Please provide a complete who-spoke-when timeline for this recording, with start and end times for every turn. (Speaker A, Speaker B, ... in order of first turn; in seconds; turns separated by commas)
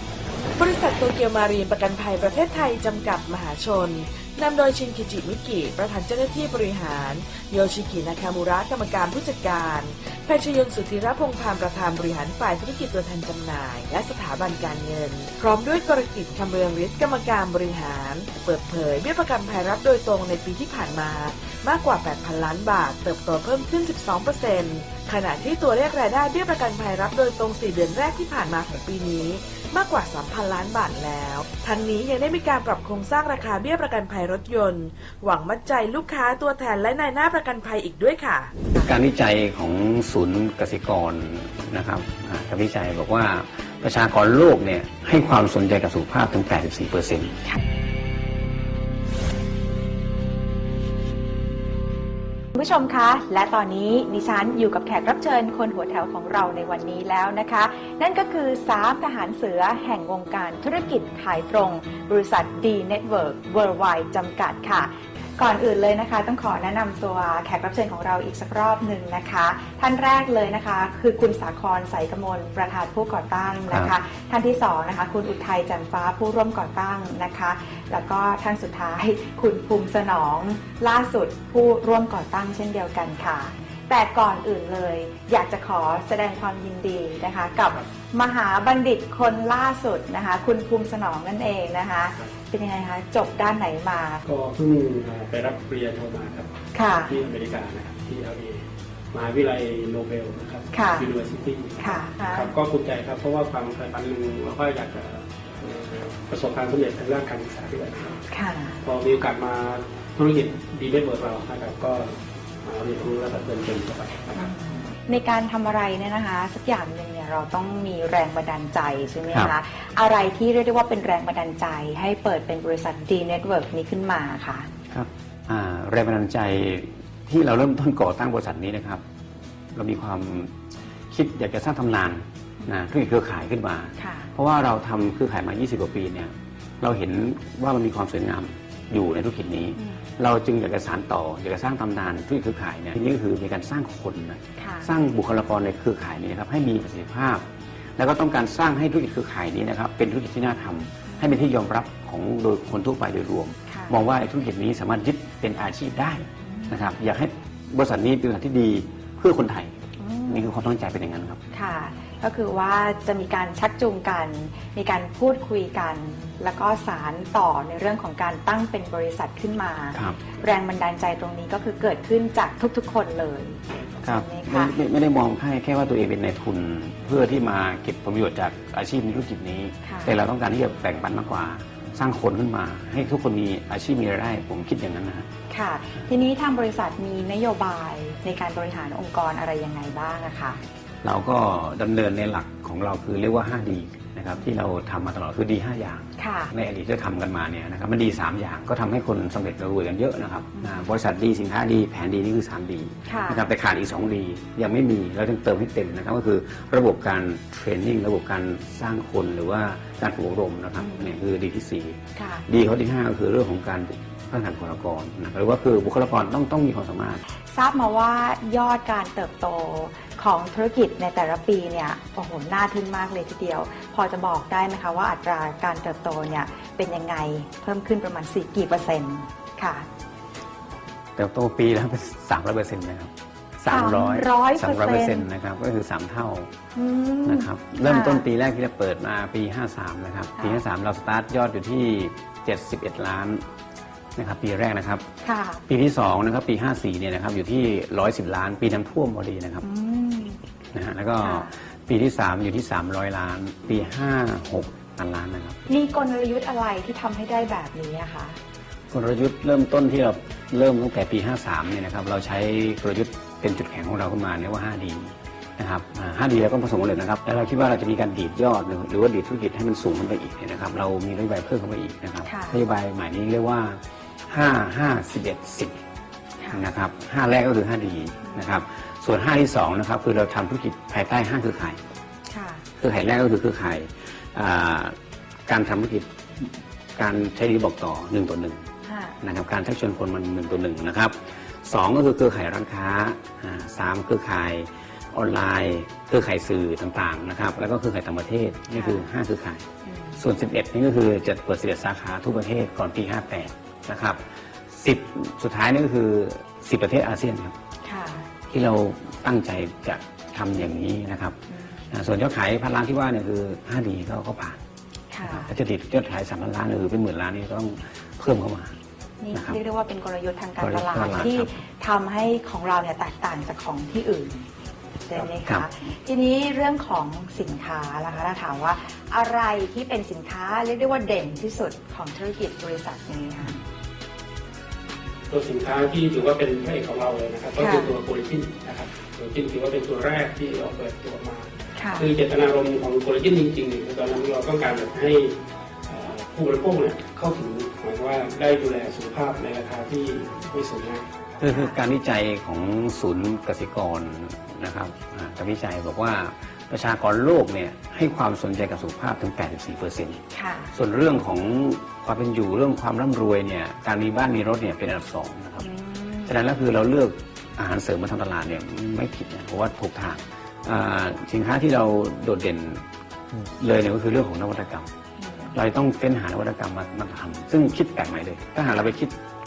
Speaker A: 0.6-38.5, Speaker B: 38.8-47.4, Speaker C: 52.5-94.2, Speaker D: 94.2-96.5, Speaker C: 96.7-97.2, Speaker D: 97.0-98.6, Speaker D: 99.1-108.2, Speaker C: 100.7-101.1, Speaker C: 101.8-102.5, Speaker C: 108.3-108.8, Speaker D: 108.8-114.5, Speaker C: 114.3-124.7, Speaker B: 124.9-129.0, Speaker B: 129.7-130.6, Speaker B: 131.1-161.4, Speaker C: 134.0-134.3, Speaker C: 139.8-140.1, Speaker C: 144.6-144.9, Speaker C: 151.1-151.4, Speaker C: 153.7-154.0, Speaker C: 156.4-156.8, Speaker C: 160.0-160.5, Speaker C: 161.5-174.7, Speaker B: 169.9-170.2, Speaker B: 174.0-185.3, Speaker C: 179.8-180.2, Speaker C: 185.5-190.6, Speaker B: 191.0-217.2, Speaker C: 196.2-196.5, Speaker C: 200.6-200.9, Speaker C: 203.1-203.5, Speaker C: 210.8-211.1, Speaker C: 212.2-212.5, Speaker C: 217.5-229.9, Speaker B: 231.2-236.5, Speaker C: 233.7-235.3, Speaker C: 236.8-238.2, Speaker B: 237.3-243.4, Speaker B: 244.2-245.1, Speaker C: 245.2-245.6, Speaker B: 245.7-249.7, Speaker C: 249.6-250.4, Speaker B: 250.7-255.6, Speaker C: 251.2-251.5, Speaker C: 255.7-258.4, Speaker B: 258.9-275.8, Speaker C: 272.2-272.6, Speaker C: 276.4-276.6, Speaker B: 276.5-281.8, Speaker C: 282.3-282.7, Speaker B: 282.8-285.0, Speaker B: 285.5-288.6, Speaker C: 288.9-289.2, Speaker B: 289.2-299.7, Speaker C: 298.7-299.1, Speaker C: 299.8-300.2, Speaker B: 300.2-307.6, Speaker C: 307.8-308.3, Speaker B: 308.5-311.4, Speaker C: 311.5-311.8, Speaker B: 311.9-314.6, Speaker C: 315.1-315.5, Speaker B: 315.2-318.8, Speaker C: 319.2-324.5, Speaker B: 319.3-319.6, Speaker B: 320.6-321.5, Speaker C: 325.1-333.6, Speaker D: 335.3-351.3, Speaker C: 337.6-337.9, Speaker C: 341.8-342.1, Speaker B: 351.4-360.2, Speaker C: 351.4-351.8, Speaker C: 360.3-360.7, Speaker B: 360.7-365.7, Speaker C: 365.6-366.3, Speaker B: 366.3-374.9, Speaker C: 375.2-375.6, Speaker B: 375.5-379.2